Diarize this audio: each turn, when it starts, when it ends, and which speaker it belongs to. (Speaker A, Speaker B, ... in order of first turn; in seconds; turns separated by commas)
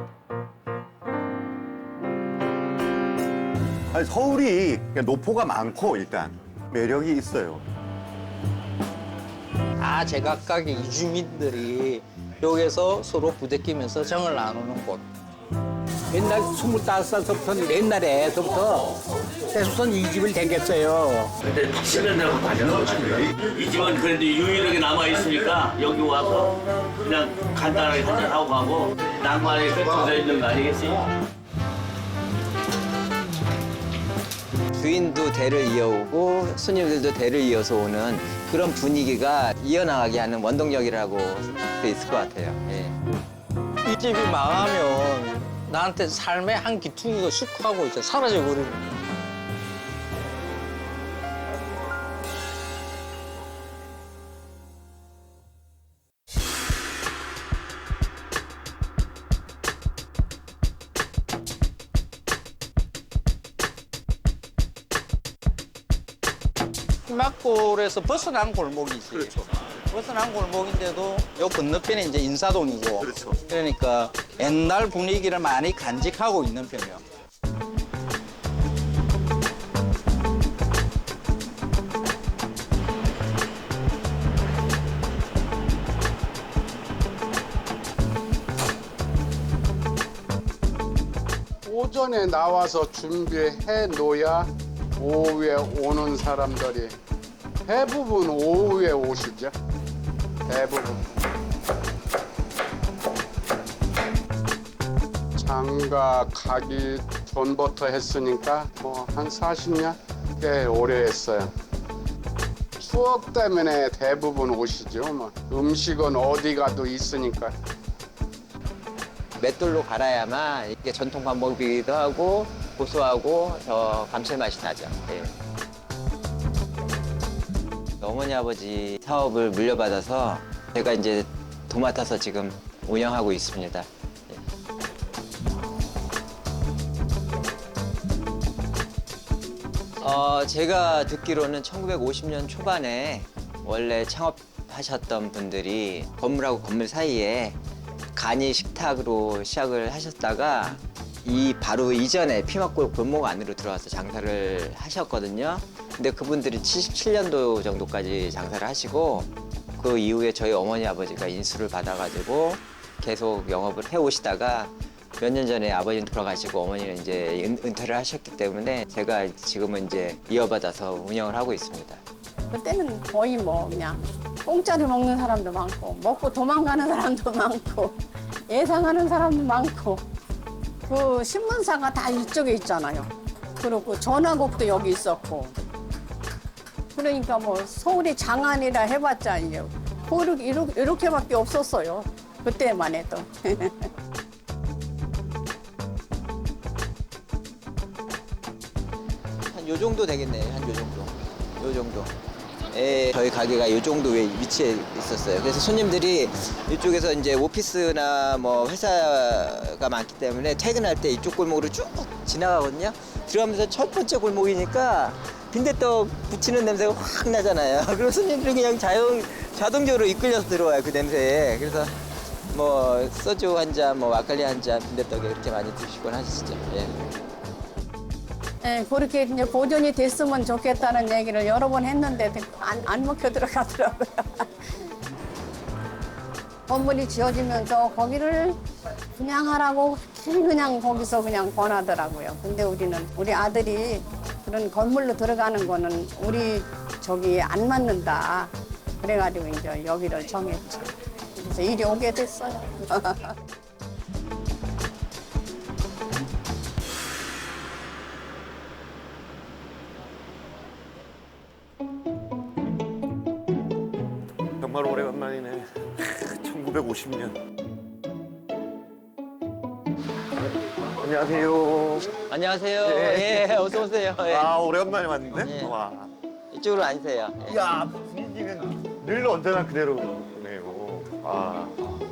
Speaker A: 3.9-7.6, Speaker B: 9.8-15.1, Speaker C: 16.1-18.9, Speaker C: 19.5-21.3, Speaker D: 21.4-31.0, Speaker E: 34.8-43.0, Speaker B: 43.8-49.0, Speaker B: 67.1-77.0, Speaker A: 69.1-69.4, Speaker A: 73.0-73.4, Speaker F: 91.6-96.9, Speaker F: 97.7-99.5, Speaker F: 100.5-101.0, Speaker F: 105.4-111.5, Speaker F: 112.8-117.5, Speaker E: 119.4-125.3, Speaker E: 128.0-134.4, Speaker E: 140.0-147.6, Speaker E: 148.1-172.0, Speaker G: 172.5-177.9, Speaker G: 178.5-180.0, Speaker G: 180.9-185.5, Speaker G: 186.9-193.9, Speaker E: 199.5-202.1, Speaker E: 202.7-221.9, Speaker E: 222.5-226.9, Speaker G: 228.6-234.5, Speaker G: 236.7-238.6, Speaker G: 239.2-253.3, Speaker A: 264.6-267.4, Speaker A: 271.0-272.1, Speaker E: 272.3-274.5, Speaker A: 272.8-273.6, Speaker A: 274.2-276.1, Speaker E: 275.4-275.7, Speaker E: 276.5-277.6, Speaker A: 277.5-281.8